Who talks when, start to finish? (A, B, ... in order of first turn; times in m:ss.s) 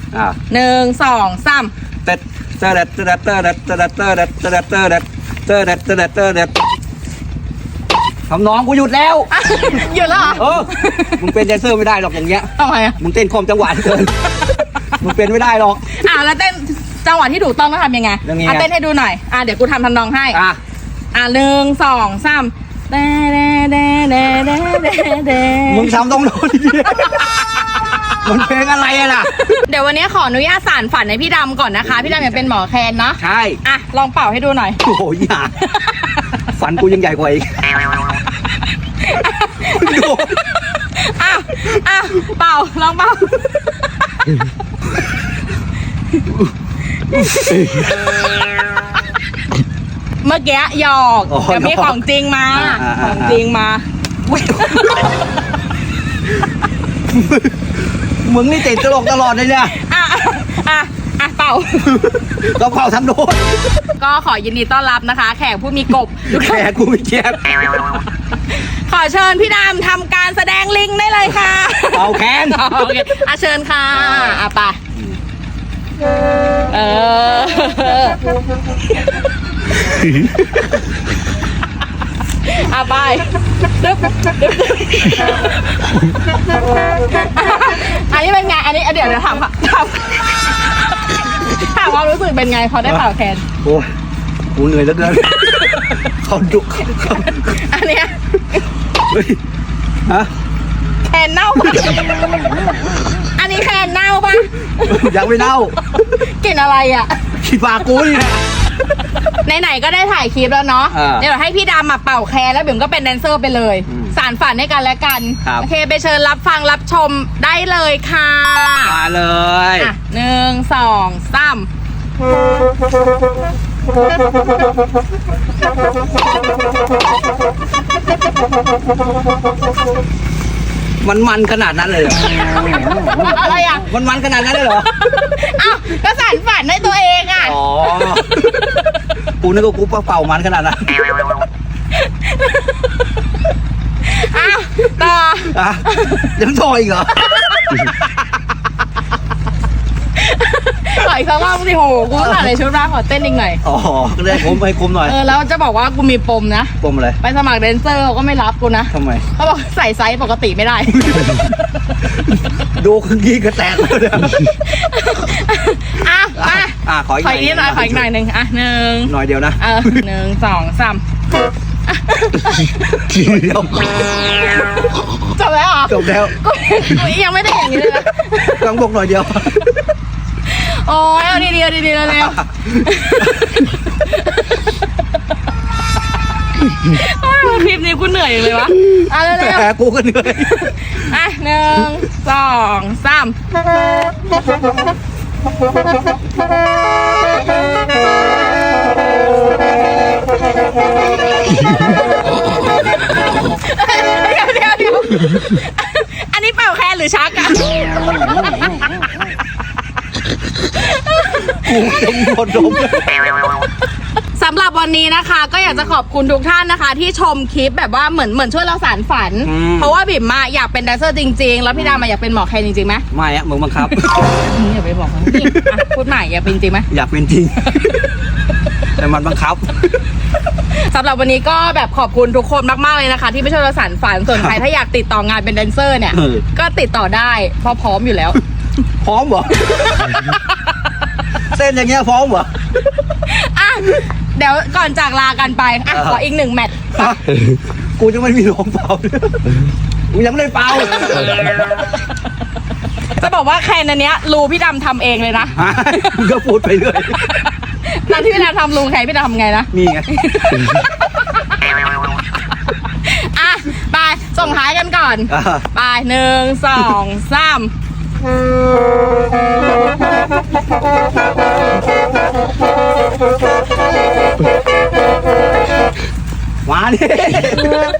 0:00.1-0:00.4 A
0:00.5-0:01.7 B
0:02.0-0:06.6 A
0:08.3-0:09.3 A
0:09.3-0:11.2 B
0:10.4-0:14.2 A
0:12.6-0:13.0 B
0:15.0-0:15.9 A
0:15.9-0:20.4 B
0:18.2-0:18.7 A
0:20.3-0:20.6 A
0:21.1-0:26.0 B
0:25.6-0:27.3 A
0:28.2-0:29.3 A
0:29.4-0:34.8 B
0:31.8-0:32.4 A
0:33.2-0:33.6 A
0:34.8-0:35.5 A
0:35.6-0:36.2 B
0:36.5-0:37.5 A
0:39.0-0:44.4 B
0:39.6-0:40.4 A
0:47.1-0:47.7 B
0:47.1-0:47.9 A
0:50.2-0:53.8 B
0:51.3-0:52.0 A
0:52.5-0:53.4 A
0:54.3-0:55.0 A
0:54.6-0:55.1 B
0:57.1-0:57.5 A
0:58.2-0:59.7 A
0:59.7-1:02.0 B
1:01.9-1:03.6 A
1:04.0-1:06.7 B
1:06.3-1:07.4 A
1:08.5-1:14.8 B
1:11.9-1:12.6 A
1:16.7-1:18.2 B
1:20.1-1:20.4 A
1:22.4-1:25.6 B
1:27.1-1:33.4 B
1:33.6-1:33.9 A
1:34.5-1:37.6 A
1:37.0-1:38.6 B
1:39.1-1:39.4 A
1:41.0-1:42.2 B
1:43.3-1:45.3 B
1:44.8-1:45.8 A
1:45.8-1:47.2 B
1:47.4-1:48.4 A
1:49.4-1:59.0 B
1:50.9-1:51.3 A
1:53.9-1:54.1 A
1:58.8-1:59.9 A
1:59.8-2:01.7 B
2:11.0-2:12.2 A
2:13.2-2:13.9 B
2:13.8-2:14.9 A
2:14.9-2:18.8 B
2:17.4-2:18.4 A
2:19.4-2:21.0 A
2:22.0-2:23.0 B
2:24.0-2:26.3 B
2:25.5-2:27.9 A
2:27.2-2:27.9 B
2:30.1-2:33.6 B
2:32.2-2:32.5 A
2:33.6-2:35.2 A
2:34.3-2:41.6 B
2:36.8-2:37.2 A
2:38.9-2:39.2 A
2:40.9-2:41.4 A
2:42.6-2:44.4 A
2:44.6-2:51.0 B
2:46.3-2:48.0 A
2:49.0-2:50.0 A
2:51.9-2:53.0 B
2:53.0-2:53.9 A
2:55.2-2:58.6 B
2:55.9-2:56.3 A
2:58.4-2:59.7 A
3:00.4-3:04.8 B
3:02.1-3:02.8 A
3:06.6-3:09.7 B
3:09.0-3:11.1 A
3:10.5-3:13.4 B
3:23.4-3:28.9 B
3:30.8-3:32.7 B
3:31.6-3:33.2 A
3:34.4-3:43.0 B
3:39.4-3:39.9 A
3:41.7-3:42.0 A
3:43.1-3:44.1 A
3:43.9-3:46.9 B
3:45.3-3:45.8 A
3:46.9-3:48.0 A
3:47.7-3:48.0 B
3:49.0-3:49.8 A
3:50.7-3:58.4 B
3:54.3-3:54.6 A
3:56.1-3:56.4 A
3:59.0-4:00.2 A
3:59.6-4:00.7 B
4:01.5-4:02.5 A
4:03.1-4:07.2 B
4:05.9-4:06.2 A
4:06.9-4:07.3 A
4:08.0-4:09.6 A
4:10.1-4:11.4 A
4:13.2-4:16.2 B
4:15.5-4:17.2 A
4:17.2-4:21.5 B
4:19.7-4:20.1 A
4:22.9-4:27.7 B
4:25.3-4:25.6 A
4:36.6-4:37.8 A